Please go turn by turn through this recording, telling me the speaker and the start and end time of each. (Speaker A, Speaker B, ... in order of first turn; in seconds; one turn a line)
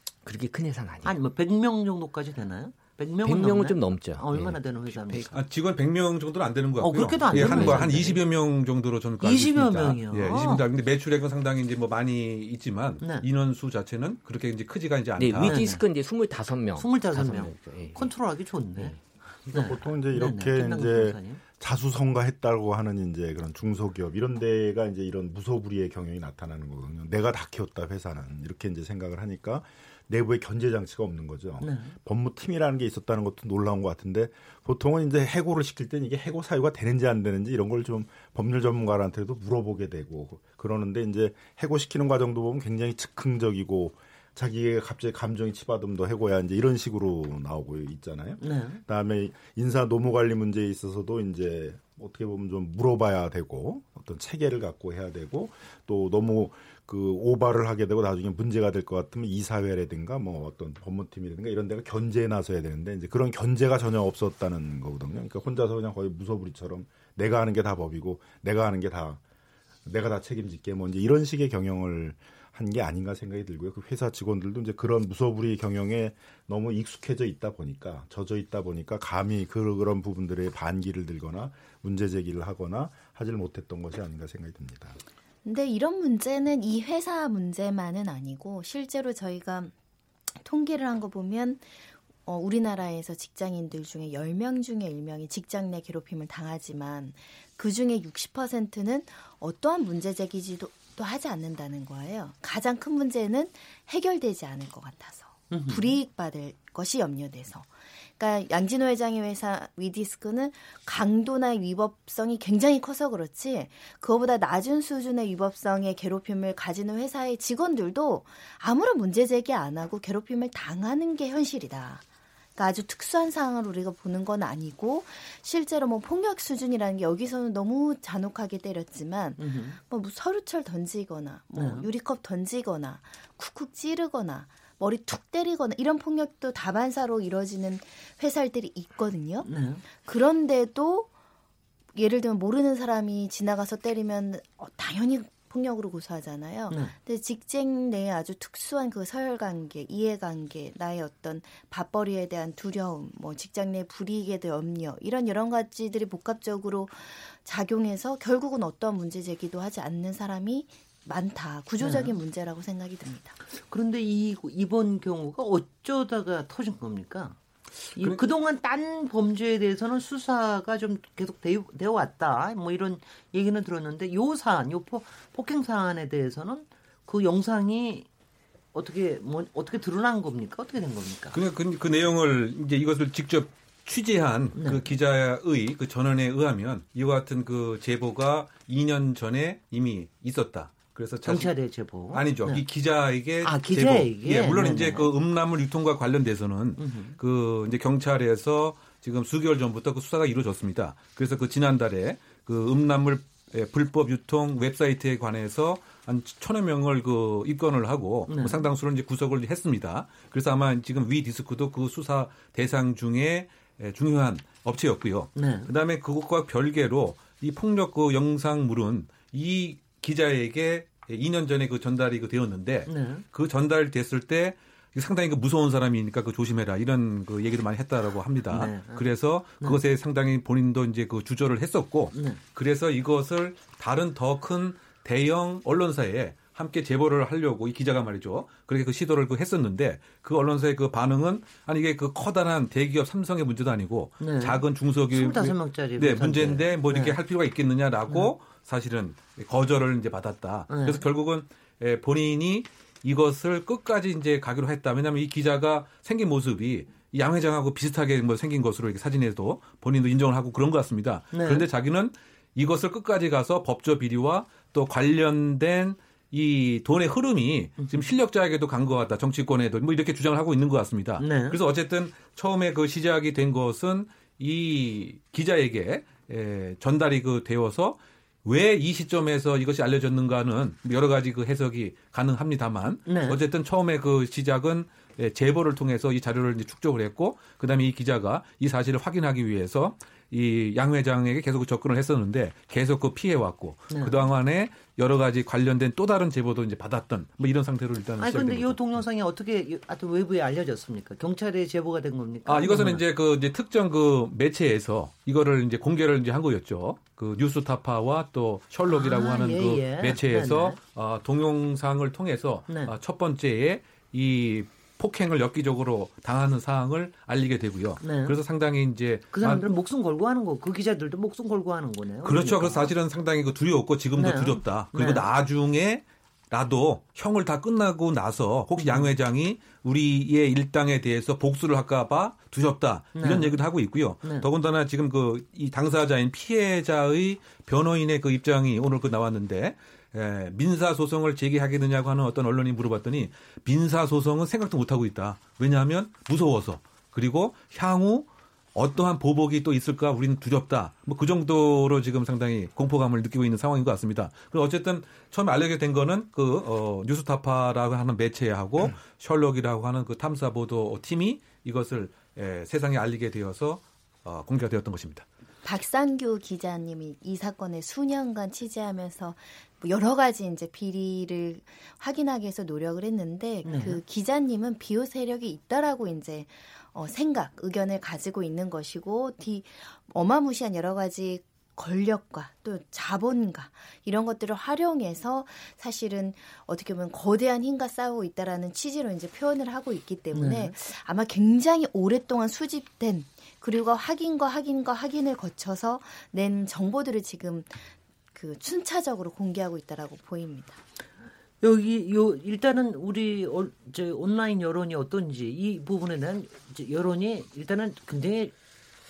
Speaker A: 0.2-1.1
Speaker B: 1.1-5.4
Speaker A: 3.2-5.3
Speaker C: 5.3-15.6
Speaker B: 6.8-8.2
Speaker A: 7.3-8.0
Speaker B: 9.2-10.6
Speaker B: 13.0-13.2
Speaker A: 15.2-18.1
Speaker B: 15.4-15.8
Speaker B: 16.8-21.4
Speaker D: 19.5-69.2
Speaker B: 31.6-31.9
Speaker B: 48.4-48.8
Speaker D: 69.8-85.0
Speaker E: 85.4-89.7
Speaker E: 90.4-91.6
Speaker E: 92.2-107.7
Speaker B: 105.5-105.9
Speaker E: 108.2-122.0
Speaker E: 122.6-141.1
Speaker B: 129.4-129.8
Speaker B: 131.6-131.9
Speaker B: 139.4-139.8
Speaker E: 141.9-163.4
Speaker B: 146.7-146.9
Speaker B: 161.8-162.1
Speaker B: 163.5-167.4
Speaker C: 167.9-168.2
Speaker B: 167.9-178.1
Speaker B: 178.7-181.4
Speaker C: 181.3-191.5
Speaker B: 184.6-184.9
Speaker B: 191.2-192.6
Speaker C: 192.1-298.9
Speaker B: 193.4-195.1
Speaker B: 196.8-197.2
Speaker B: 208.3-208.6
Speaker B: 215.4-215.7
Speaker B: 222.9-223.2
Speaker B: 228.5-229.1
Speaker B: 232.1-232.4
Speaker B: 244.2-247.2
Speaker B: 250.7-251.0
Speaker B: 261.3-261.6
Speaker B: 267.8-268.1
Speaker B: 271.2-271.6
Speaker B: 283.1-283.4
Speaker B: 293.9-294.2
Speaker B: 298.2-303.0
Speaker C: 302.4-319.6
Speaker B: 308.9-310.8
Speaker B: 318.0-318.4
Speaker B: 319.3-322.9
Speaker C: 322.2-365.2
Speaker B: 324.1-325.2
Speaker B: 328.8-329.1
Speaker B: 333.1-333.6
Speaker E: 365.6-400.8
Speaker B: 373.6-374.0
Speaker B: 390.3-390.7
Speaker B: 401.6-408.5